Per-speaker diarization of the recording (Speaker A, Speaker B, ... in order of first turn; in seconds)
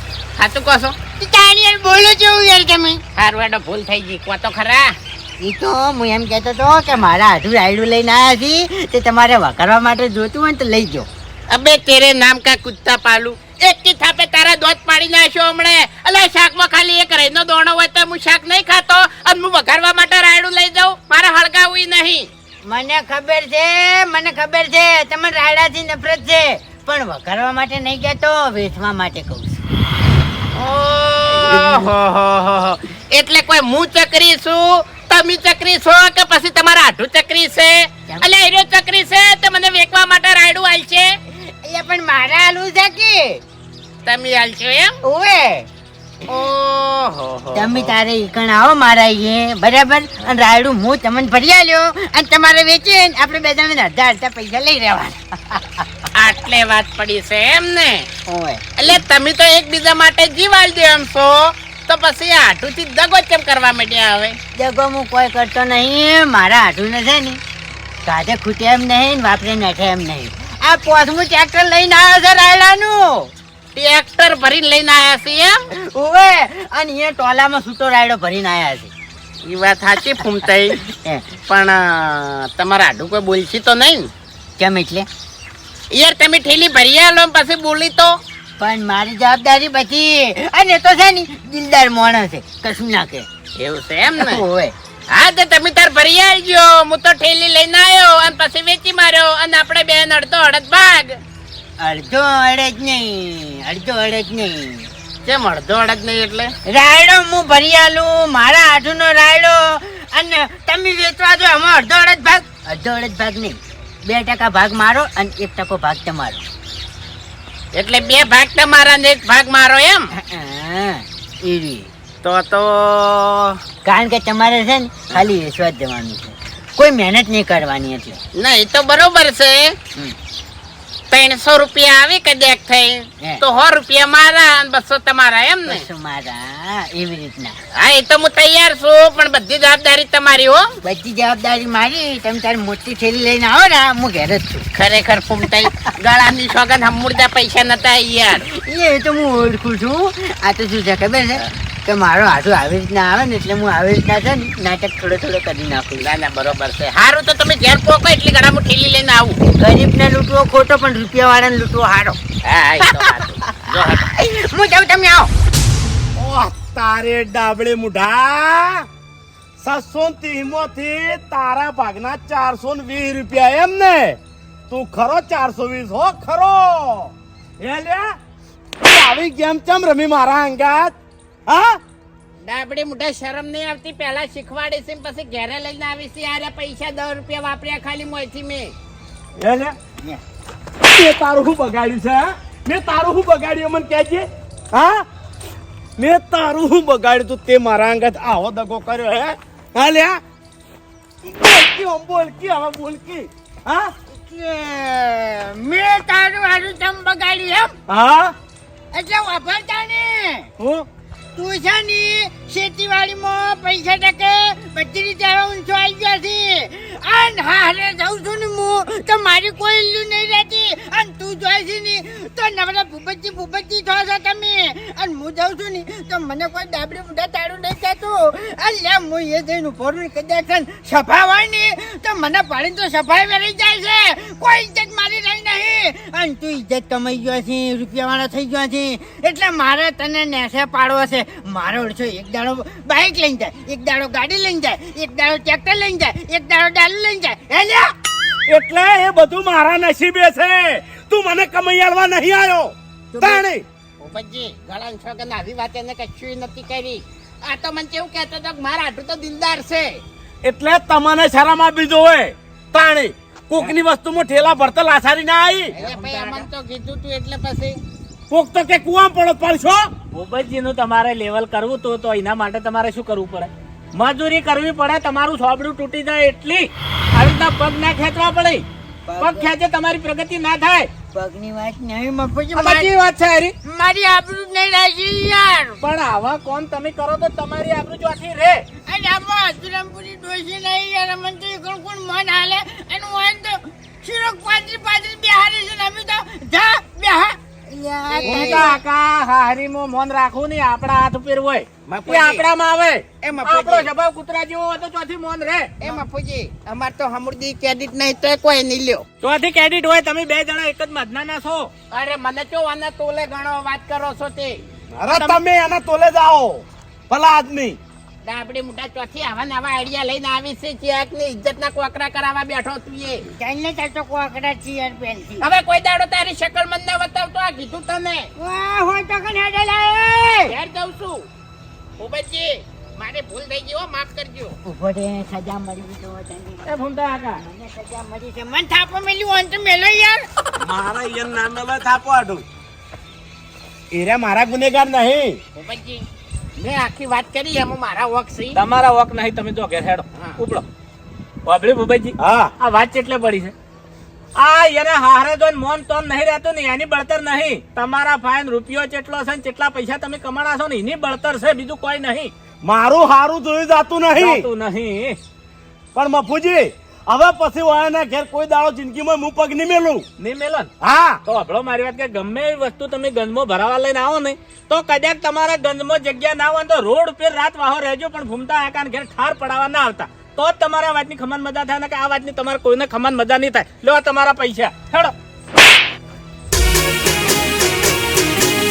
Speaker A: 0.4-0.9, 3.1-4.9, 11.5-22.3, 30.5-41.1, 44.0-45.0, 46.3-47.9, 56.1-58.1, 58.8-64.4, 73.7-75.7, 79.4-80.8, 81.4-84.1, 85.9-88.2, 93.6-94.4, 95.1-101.2, 105.2-106.5, 117.7-120.1, 122.2-123.6, 128.3-129.8, 131.1-135.8, 137.8-140.7, 144.8-148.5, 156.0-159.4, 162.4-164.1, 182.4-188.7, 254.0-260.0, 265.8-267.8, 298.1-298.7, 301.9-302.4, 303.2-303.9, 305.8-309.0, 311.9-314.6, 318.2-323.2, 325.4-328.3, 330.5-331.2, 332.0-334.6, 345.5-346.0, 346.6-348.6
Speaker B: 1.2-3.0, 5.4-11.1, 22.6-29.6, 31.4-31.8, 41.4-43.4, 45.0-45.7, 47.5-56.1, 58.2-58.9, 64.5-67.4, 68.0-73.3, 75.7-78.9, 80.2-81.3, 84.6-85.1, 88.6-93.3, 94.2-94.7, 101.8-104.9, 106.7-116.4, 120.1-121.9, 123.8-128.2, 135.7-137.6, 140.8-144.7, 145.6-145.9, 148.4-156.1, 159.5-162.2, 162.8-165.3, 204.1-207.7, 208.9-210.5, 211.3-247.9, 253.1-253.5, 265.7-266.5, 279.1-279.5, 281.1-282.9, 283.6-285.8, 288.9-298.8, 323.4-325.5, 328.4-330.5, 334.6-340.3
Speaker C: 166.2-168.8, 169.6-178.2, 178.8-180.9, 181.5-181.8, 189.4-189.8, 190.8-195.0, 196.0-200.2, 201.2-203.9, 207.9-208.3, 210.6-210.8, 248.5-253.6, 260.4-265.7, 268.3-269.9, 314.9-317.8, 340.6-342.4, 343.9-345.4, 352.2-352.5, 362.6-364.4, 365.9-370.1, 370.8-371.2
Speaker D: 270.1-278.6, 279.2-280.9, 282.5-283.5, 285.8-288.6, 298.3-305.8, 309.2-311.7, 336.6-337.4, 348.5-350.6, 351.4-353.5, 354.4-362.3, 364.2-365.2, 370.2-370.7, 371.2-385.1